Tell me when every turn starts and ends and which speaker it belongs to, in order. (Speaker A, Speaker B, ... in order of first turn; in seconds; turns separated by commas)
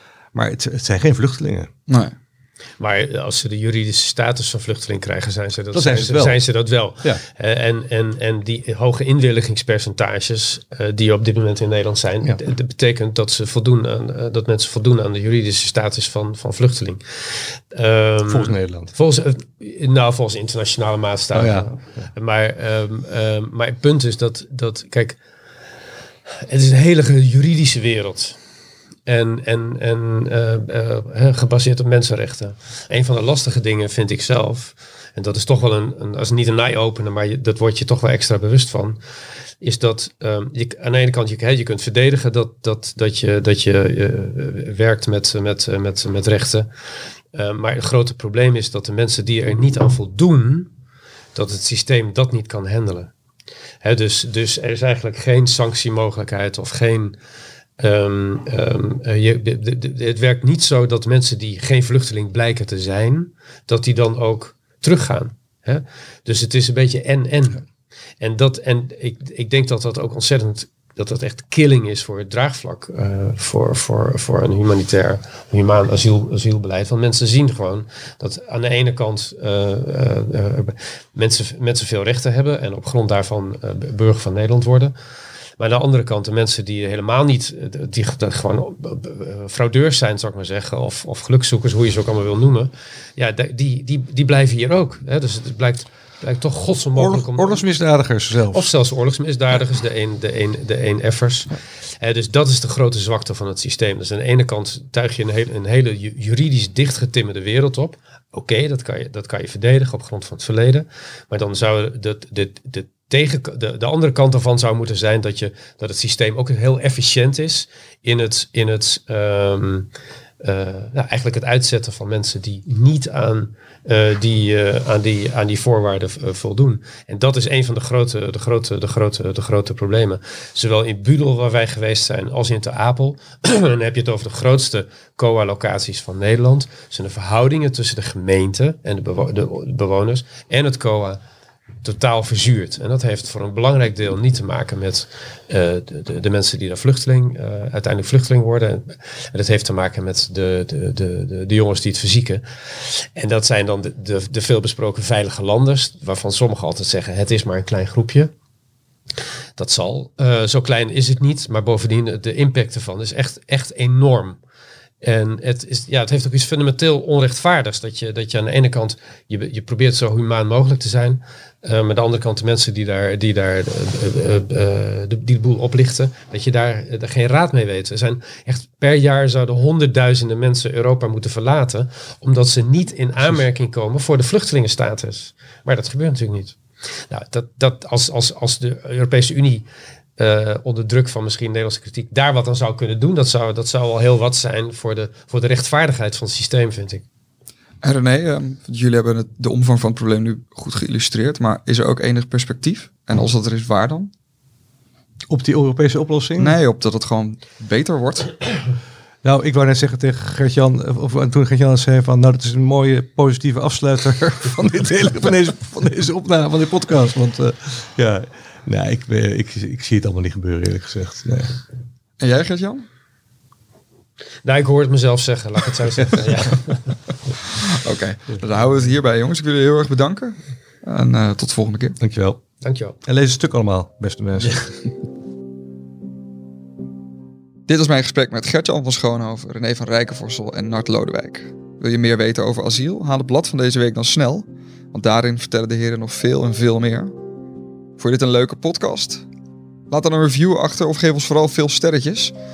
Speaker A: 0.3-1.7, Speaker B: 1.9-2.1, Speaker C: 2.8-17.0, Speaker A: 5.7-6.4, Speaker C: 17.7-25.2, Speaker A: 18.3-18.9, Speaker A: 21.3-21.7, Speaker C: 26.3-28.4, Speaker C: 29.1-39.0, Speaker C: 39.6-46.7, Speaker C: 47.3-50.7, Speaker C: 51.3-53.1, Speaker C: 53.8-57.2, Speaker C: 57.8-67.6, Speaker C: 68.2-84.9, Speaker C: 85.6-97.6, Speaker A: 97.0-98.7, Speaker C: 98.5-119.9, Speaker C: 120.4-141.2, Speaker C: 141.8-158.3, Speaker C: 159.6-164.4, Speaker C: 165.0-186.6, Speaker C: 187.1-189.7, Speaker C: 190.2-197.0, Speaker B: 197.8-204.1, Speaker A: 205.3-206.6, Speaker B: 206.4-208.6, Speaker A: 209.2-221.6, Speaker B: 222.2-222.8, Speaker C: 224.4-226.9, Speaker B: 227.6-232.0, Speaker A: 232.0-232.4, Speaker C: 232.6-232.9, Speaker A: 233.0-234.7, Speaker B: 237.7-247.2, Speaker B: 248.0-249.2, Speaker B: 249.9-252.3